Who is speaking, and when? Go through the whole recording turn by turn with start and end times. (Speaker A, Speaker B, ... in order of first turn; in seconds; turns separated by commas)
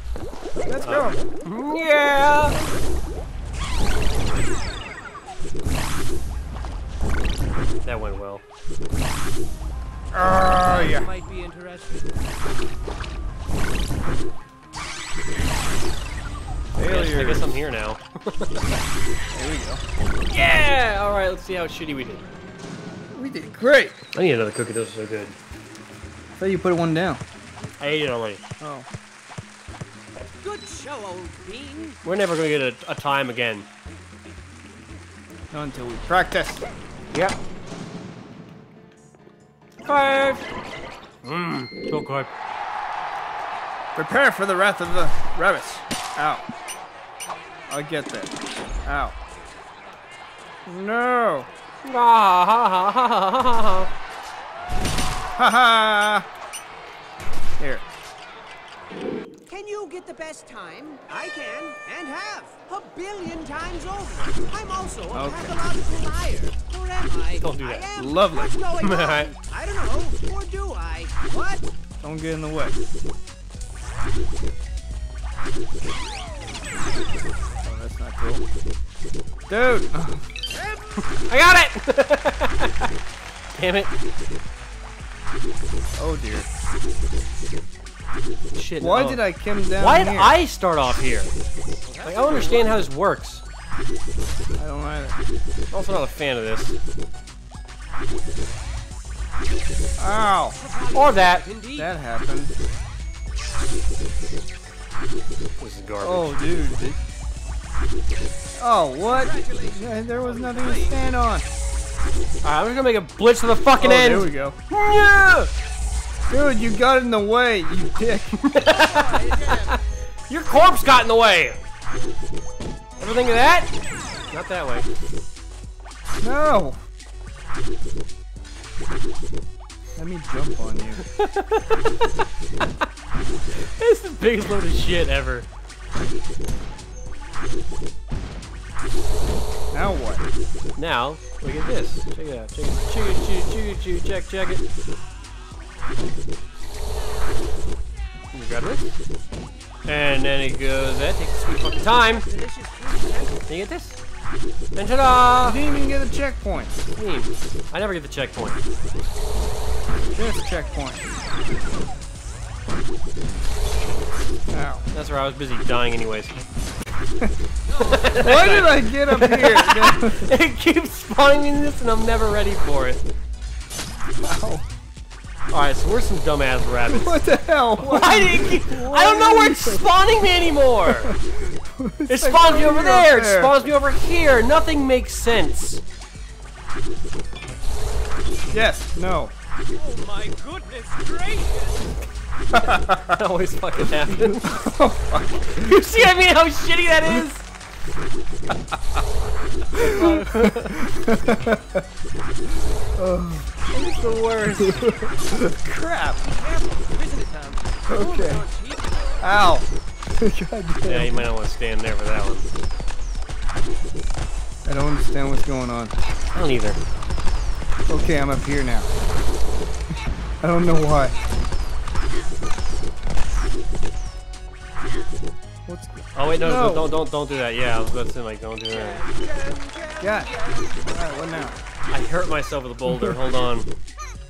Speaker A: 0.7-1.2, Speaker B: 0.8-2.6, Speaker B: 7.8-8.4, Speaker A: 10.1-11.1, Speaker C: 10.5-12.1, Speaker A: 16.8-17.5, Speaker B: 16.8-18.8, Speaker A: 19.3-19.8, Speaker B: 20.3-22.2, Speaker A: 23.1-24.1, Speaker B: 24.1-25.4, Speaker A: 26.4-27.2, Speaker B: 27.8-28.4, Speaker A: 28.6-28.9, Speaker C: 30.4-32.0, Speaker B: 32.0-33.7, Speaker A: 35.5-37.4, Speaker B: 39.9-40.5, Speaker B: 41.2-42.3, Speaker A: 44.0-46.4, Speaker A: 47.7-49.2, Speaker A: 50.7-51.5, Speaker B: 51.8-53.9, Speaker A: 55.4-56.3, Speaker A: 57.6-57.9, Speaker C: 59.5-71.7, Speaker A: 65.1-65.7, Speaker B: 67.4-67.9, Speaker A: 68.0-68.5, Speaker B: 68.8-69.3, Speaker A: 72.0-72.8, Speaker A: 77.6-78.4, Speaker A: 79.5-80.2, Speaker C: 80.5-81.1, Speaker B: 81.1-82.9, Speaker B: 83.6-83.9, Speaker A: 86.0-86.5, Speaker B: 88.5-89.2, Speaker A: 88.8-90.4, Speaker B: 89.8-91.3, Speaker C: 91.9-92.8, Speaker B: 92.0-93.4, Speaker A: 94.6-95.2, Speaker B: 95.7-96.8, Speaker A: 100.0-100.6, Speaker C: 100.6-101.9, Speaker B: 100.9-101.5, Speaker A: 101.8-102.5, Speaker B: 105.6-106.4, Speaker A: 106.0-107.0, Speaker A: 108.6-111.5, Speaker C: 109.1-111.0, Speaker B: 112.4-115.5, Speaker A: 113.8-114.6, Speaker A: 116.3-118.4, Speaker B: 118.4-121.6, Speaker C: 118.6-119.8, Speaker B: 123.0-123.7, Speaker B: 124.3-124.9, Speaker A: 126.2-126.8, Speaker A: 130.0-131.0, Speaker B: 131.1-132.8, Speaker B: 133.6-135.5, Speaker A: 139.7-140.3, Speaker B: 140.8-144.6, Speaker B: 148.3-148.9, Speaker B: 149.8-152.3, Speaker C: 151.6-153.4, Speaker B: 153.5-154.0, Speaker B: 154.8-155.6, Speaker A: 155.4-156.8, Speaker B: 157.0-158.6, Speaker A: 160.1-161.0, Speaker A: 164.5-164.8, Speaker B: 164.9-166.4, Speaker C: 167.7-168.6, Speaker B: 167.8-173.0, Speaker A: 168.2-170.3, Speaker A: 174.2-174.7, Speaker B: 175.5-177.2, Speaker A: 176.9-179.9, Speaker B: 177.8-181.1, Speaker A: 180.8-183.6, Speaker B: 182.1-185.8, Speaker A: 188.5-189.3, Speaker C: 189.7-191.9, Speaker A: 192.5-193.2, Speaker B: 192.6-194.7, Speaker A: 194.2-195.9, Speaker B: 195.6-197.4, Speaker A: 199.7-201.9, Speaker B: 199.7-200.9, Speaker A: 202.5-203.7, Speaker B: 203.7-205.0, Speaker A: 204.5-206.2, Speaker C: 206.2-209.2, Speaker A: 207.9-208.4, Speaker A: 209.2-211.3, Speaker B: 210.8-212.5, Speaker A: 214.7-215.9, Speaker B: 216.3-216.8, Speaker A: 217.9-218.9, Speaker A: 220.4-221.2, Speaker A: 225.7-227.0, Speaker B: 226.1-229.0, Speaker C: 228.7-230.9, Speaker A: 230.0-231.6, Speaker B: 231.9-233.7